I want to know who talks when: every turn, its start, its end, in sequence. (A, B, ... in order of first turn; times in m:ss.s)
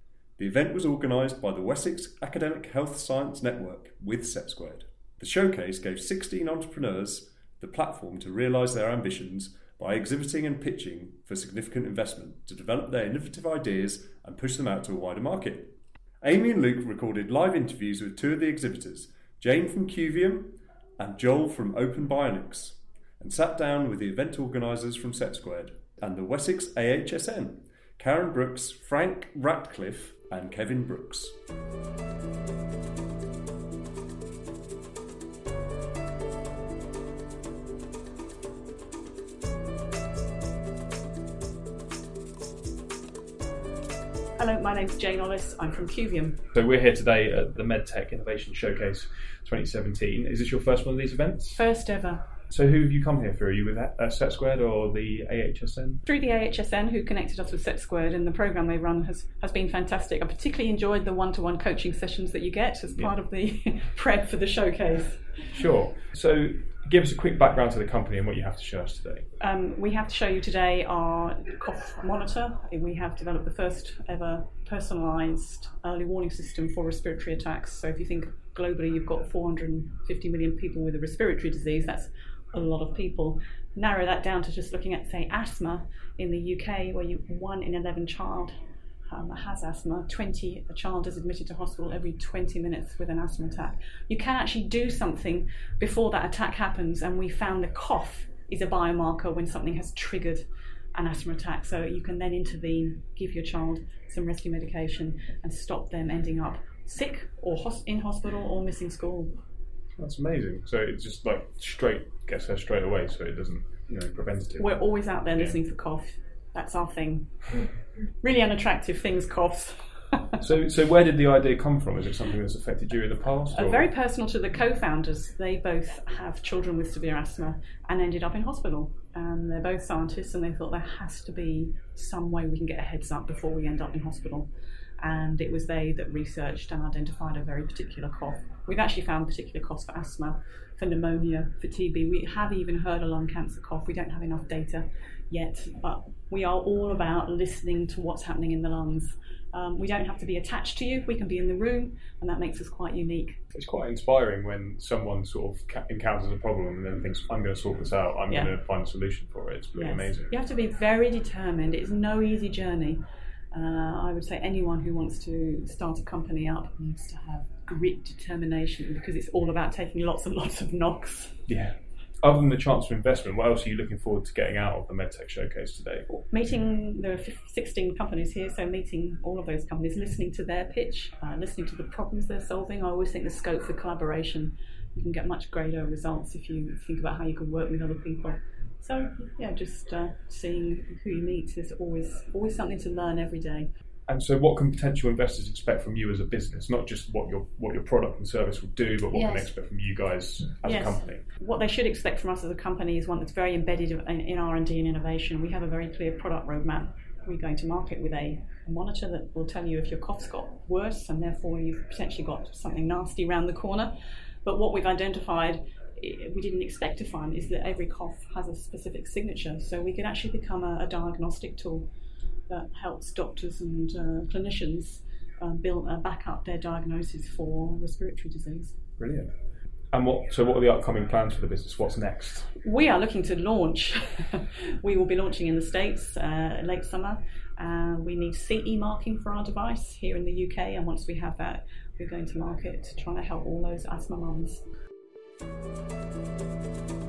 0:00.4-0:31.4 A
0:44.4-0:46.4 B
0:46.5-0:51.6 C
0:51.5-0:52.3 B
0:52.5-0:56.0 C
0:56.0-1:05.7 B
1:05.5-1:09.3 C
1:09.4-1:28.5 B
1:29.1-1:49.4 B
1:49.9-1:55.6 C
1:54.6-1:57.7 B
1:58.2-2:00.4 B
2:00.4-2:03.9 C
2:03.5-2:14.5 B
2:15.0-2:33.4 B
2:33.5-2:40.3 C
2:38.3-2:38.6 B
2:39.7-2:43.0 B
2:43.5-2:51.5 B
2:51.5-2:56.0 C
2:56.1-3:13.7 B
3:14.1-3:21.2 C
3:20.6-3:41.9 B
3:42.5-3:48.8 B
3:49.0-3:49.3 C
3:49.9-3:52.5 C
3:52.6-4:04.6 B